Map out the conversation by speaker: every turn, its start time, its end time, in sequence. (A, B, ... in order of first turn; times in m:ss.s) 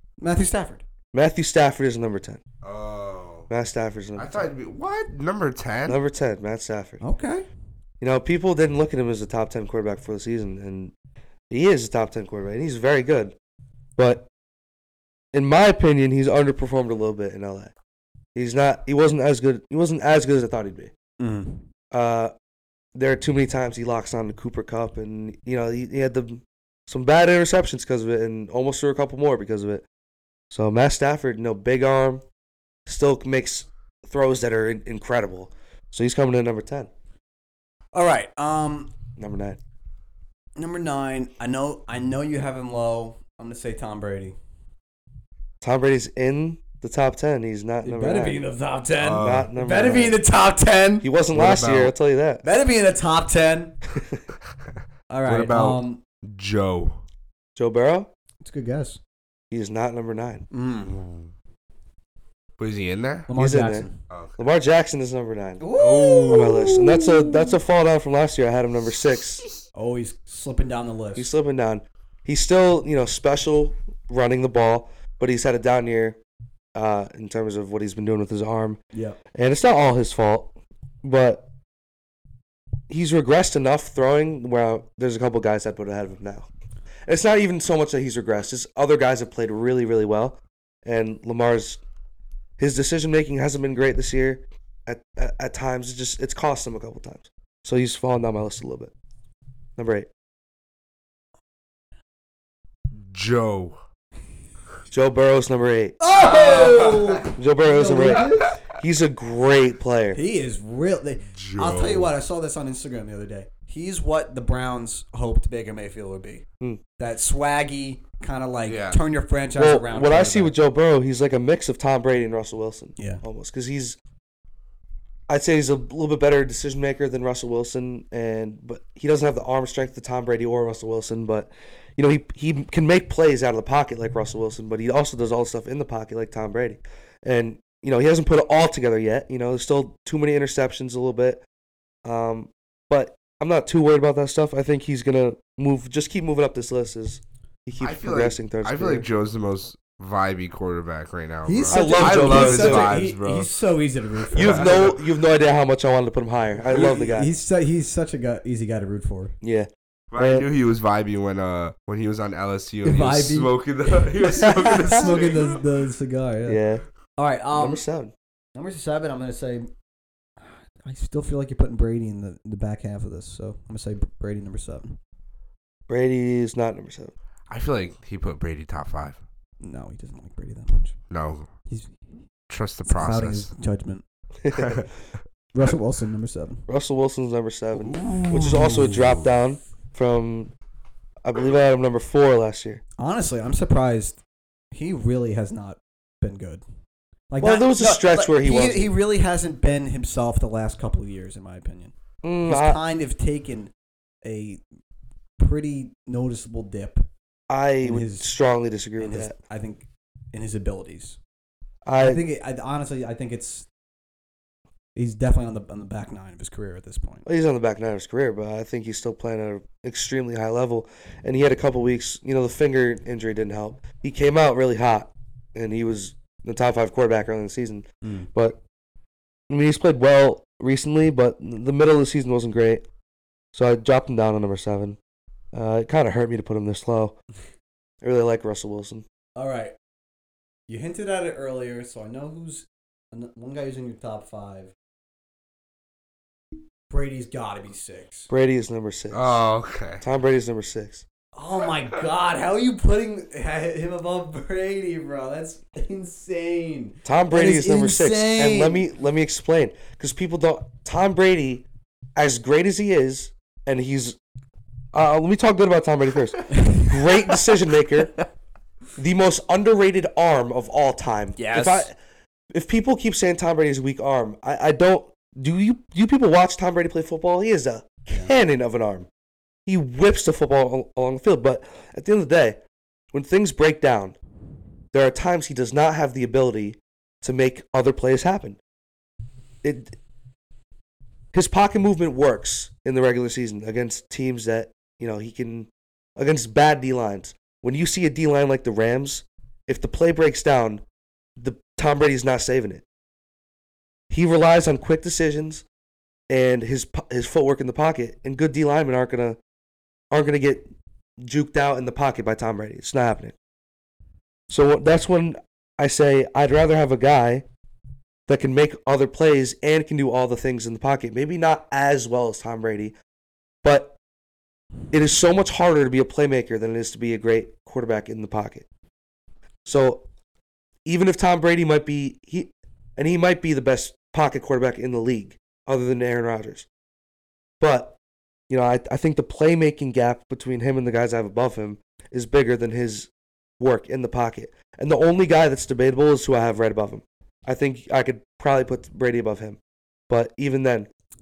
0:00.2-0:00.8 A
0:01.1-0:02.4 B
0:02.6-0:03.5 C
0:03.5-0:04.5 B
0:04.2-0:06.0 C
0:05.9-0:07.0 B
0:07.0-0:07.5 A
0:08.0-0:10.9 B
0:11.5-0:13.4 B
0:14.0-0:14.3 B
0:15.3-0:17.7 B
0:18.4-0:20.9 B
0:21.2-0:21.7 A
0:21.9-0:22.3 B
0:23.0-0:29.9 B
0:30.5-0:32.2 B
0:32.9-0:36.9 B
0:37.9-0:38.9 A
0:39.2-0:39.6 B
0:40.6-0:44.4 A
0:45.6-0:48.4 B
0:47.8-0:51.1 A
0:49.0-0:49.5 C
0:49.2-0:50.2 B
0:51.0-0:52.4 B
0:51.3-0:51.9 C
0:52.4-0:53.8 A
0:54.0-0:54.2 B
0:55.1-0:56.0 A
0:55.2-0:57.0 C
0:57.6-0:58.1 B
0:58.4-0:59.0 A
0:59.5-1:00.5 B
1:00.5-1:00.9 A
1:00.9-1:01.3 C
1:02.6-1:03.3 C
1:03.3-1:04.0 A
1:03.4-1:05.6 B
1:04.1-1:04.4 C
1:05.6-1:07.6 A
1:05.8-1:06.6 C
1:06.3-1:09.4 B
1:09.7-1:11.3 A
1:11.2-1:16.2 B
1:16.8-1:18.8 B
1:18.9-1:19.2 A
1:19.3-1:20.5 B
1:21.0-1:21.5 B
1:22.9-1:26.5 B
1:27.1-1:31.8 B
1:32.6-1:38.9 B
1:39.8-1:40.1 B
1:43.0-1:43.8 C
1:44.9-1:46.0 B
1:46.0-1:48.6 A
1:46.3-1:47.2 C
1:47.3-1:50.2 B
1:50.1-1:56.4 A
1:51.3-1:52.1 C
1:57.0-2:00.6 A
1:58.7-1:59.0 C
1:59.6-2:04.0 B
2:03.0-2:03.2 A
2:05.3-2:21.4 B
2:22.0-2:29.1 B
2:27.8-2:33.5 C
2:31.5-2:34.9 A
2:31.7-2:33.0 B
2:34.3-2:35.0 C
2:34.4-2:37.3 B
2:36.7-2:39.3 A
2:39.4-2:40.5 B
2:40.1-2:45.6 C
2:42.8-2:46.6 A
2:44.5-2:45.0 B
2:46.5-2:46.8 B
2:47.2-2:47.8 A
2:47.5-2:48.1 B
2:48.6-2:49.7 A
2:50.4-2:55.0 A
2:55.9-2:57.1 B
2:57.5-2:59.2 C
2:59.6-3:01.0 A
3:01.1-3:01.5 C
3:01.7-3:02.0 A
3:02.5-3:03.5 C
3:02.9-3:04.0 A
3:04.4-3:04.8 B
3:04.5-3:04.9 C
3:05.5-3:06.6 A
3:06.7-3:10.5 B
3:07.8-3:09.2 C
3:08.0-3:09.0 A
3:11.2-3:12.8 B
3:13.0-3:14.2 A
3:14.7-3:16.6 A
3:17.3-3:21.9 A
3:17.4-3:18.9 B
3:22.2-3:22.8 B
3:22.4-3:23.7 A
3:24.2-3:24.6 A
3:25.4-3:27.1 A
3:27.5-3:29.3 B
3:27.8-3:28.3 A
3:29.0-3:31.2 A
3:31.8-3:32.2 B
3:32.0-3:33.7 A
3:35.0-3:37.3 A
3:37.3-3:48.6 B
3:48.0-3:48.3 A
3:49.5-3:52.8 B
3:53.5-3:55.0 B
3:55.5-3:57.2 B
3:58.0-3:59.0 B
3:59.4-3:59.8 A
4:00.7-4:04.7 A
4:06.9-4:08.3 A
4:08.3-4:09.4 B
4:09.1-4:10.0 C
4:10.0-4:11.0 B
4:11.4-4:18.9 A
4:17.0-4:24.2 B
4:24.9-4:28.1 B
4:29.0-4:32.0 B
4:31.4-4:31.9 A
4:32.5-4:39.1 B
4:39.7-4:42.6 B
4:43.1-4:44.2 B
4:44.9-4:48.6 B
4:49.6-4:50.0 B
4:51.3-5:00.8 B
5:01.4-5:02.8 B
5:04.1-5:05.6 B
5:06.3-5:09.4 B
5:10.1-5:10.7 B
5:11.2-5:13.4 B
5:14.5-5:17.4 B
5:18.3-5:23.0 B
5:23.6-5:24.0 B
5:24.9-5:28.7 B
5:29.6-5:30.0 B
5:30.8-5:36.7 B
5:37.6-5:38.0 B
5:38.5-5:50.9 B